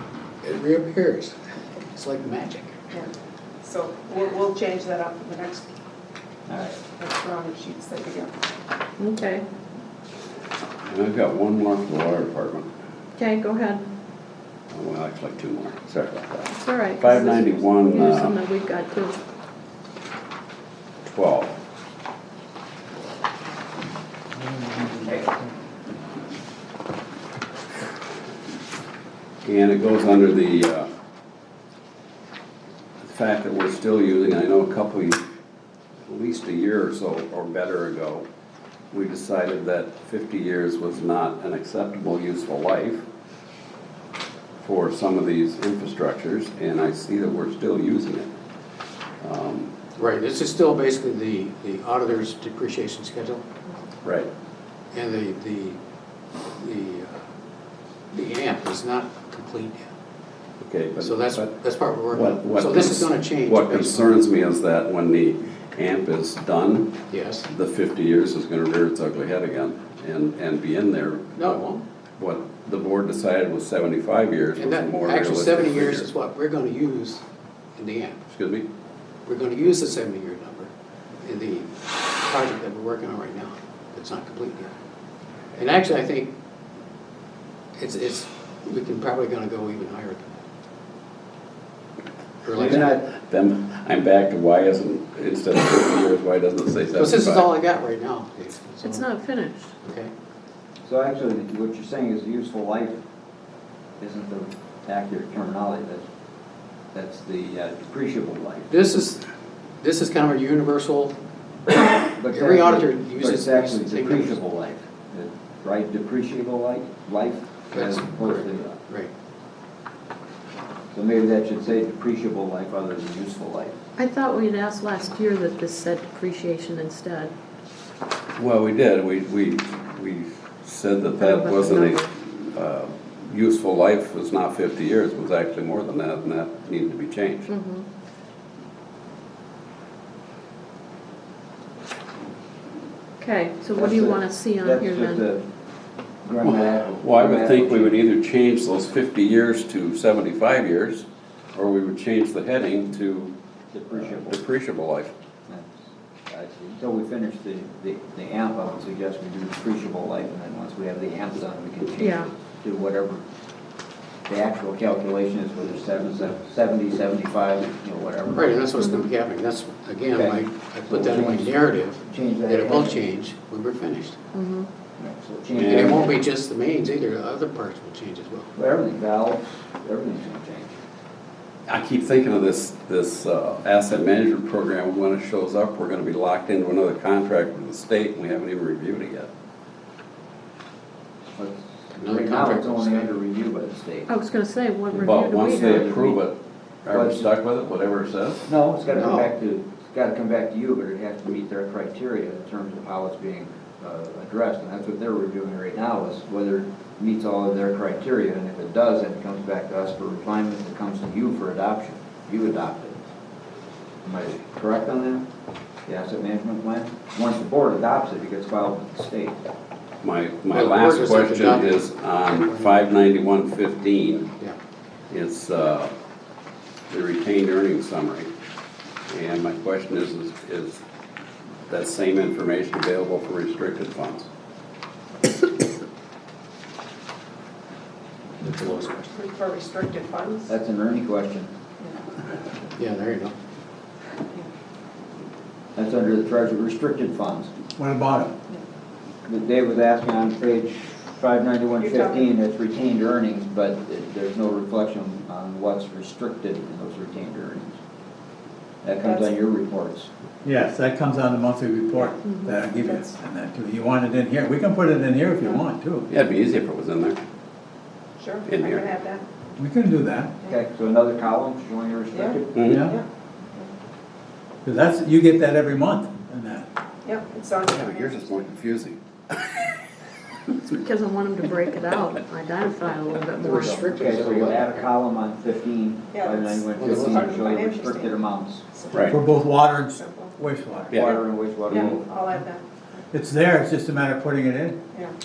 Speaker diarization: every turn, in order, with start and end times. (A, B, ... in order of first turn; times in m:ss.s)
0:00.4-0:01.4 A
0:01.9-0:02.8 A
0:03.6-0:05.7 B
0:06.5-0:06.8 C
0:07.0-0:08.3 B
0:09.0-0:09.5 D
0:10.9-0:12.7 E
0:13.2-0:13.9 D
0:14.7-0:18.4 E
0:16.5-0:19.2 D
0:21.0-0:21.6 E
0:29.4-0:30.9 E
0:33.0-0:35.2 E
0:36.0-0:38.3 E
0:38.9-0:43.0 E
0:44.6-0:48.3 E
0:49.2-0:49.7 E
0:50.0-0:53.4 A
0:54.0-0:54.3 E
0:54.9-0:55.8 A
0:56.6-0:57.2 A
0:58.1-0:59.9 A
1:00.6-1:01.5 E
1:01.0-1:04.2 A
1:02.1-1:11.6 E
1:07.1-1:07.5 A
1:11.4-1:11.8 A
1:12.2-1:16.1 E
1:14.6-1:17.2 A
1:17.8-1:18.2 A
1:18.3-1:18.7 E
1:19.3-1:20.7 A
1:21.2-1:24.7 A
1:25.6-1:26.3 A
1:27.8-1:30.4 A
1:32.4-1:32.9 A
1:32.6-1:33.1 C
1:32.6-1:37.5 E
1:37.0-1:39.1 A
1:38.8-1:39.7 D
1:39.8-1:40.1 A
1:40.9-1:43.0 C
1:44.0-1:46.0 C
1:46.9-1:48.7 C
1:48.7-1:49.2 A
1:49.8-1:51.2 A
1:51.8-1:54.4 A
1:52.1-1:58.8 C
1:57.7-1:59.1 A
2:00.9-2:03.8 C
2:04.0-2:07.3 D
2:08.4-2:17.5 E
2:11.2-2:12.1 D
2:17.5-2:17.9 D
2:23.2-2:25.2 D
2:23.8-2:25.4 C
2:26.2-2:28.1 C
2:26.4-2:33.4 E
2:33.7-2:34.4 C
2:33.9-2:35.1 E
2:35.5-2:35.7 C
2:36.3-2:43.2 C
2:42.0-2:42.3 D
2:44.3-2:48.7 C
2:48.3-2:54.2 A
2:48.8-2:49.1 D
2:50.1-2:53.0 C
2:54.3-2:54.7 D
2:55.0-2:56.2 C
2:55.6-2:56.2 E
2:55.6-2:58.5 A
2:58.6-3:00.8 C
3:01.7-3:09.3 E
3:11.4-3:14.1 C
3:12.0-3:13.1 A
3:14.1-3:15.9 D
3:14.9-3:16.2 C
3:15.0-3:18.5 E
3:16.9-3:17.3 C
3:18.5-3:33.0 C
3:19.0-3:19.3 A
3:34.0-3:35.2 C
3:35.9-3:39.4 C
3:40.0-3:44.3 E
3:40.5-3:42.8 A
3:45.1-3:45.9 E
3:46.9-3:48.3 E
3:49.1-3:50.8 E
3:51.7-3:54.3 E
3:58.4-3:59.1 A
3:59.1-4:00.6 B
4:00.5-4:01.5 C
4:02.8-4:03.4 A
4:05.8-4:07.5 C
4:07.8-4:08.3 F
4:09.3-4:17.8 C
4:11.8-4:12.3 B
4:18.8-4:20.1 C
4:19.0-4:19.3 B
4:20.4-4:26.1 F
4:22.3-4:23.1 B
4:26.1-4:27.2 E
4:28.2-4:29.3 B
4:28.5-4:28.8 E
4:29.6-4:30.3 F
4:30.5-4:32.7 C
4:32.1-4:33.1 B
4:32.6-4:32.8 E
4:32.6-4:33.0 F
4:34.6-4:36.7 F
4:37.0-4:38.5 B
4:37.7-4:39.8 E
4:40.7-4:43.9 D
4:43.4-4:44.9 A
4:43.5-4:48.6 C
4:46.1-4:48.2 B
4:46.8-4:47.3 A
4:48.8-4:49.2 B
4:48.9-4:49.2 E
4:49.1-4:51.0 F
4:49.8-4:50.4 B
4:50.9-4:51.2 E
4:50.9-4:52.0 C
4:51.7-4:53.1 B
4:53.1-4:54.8 F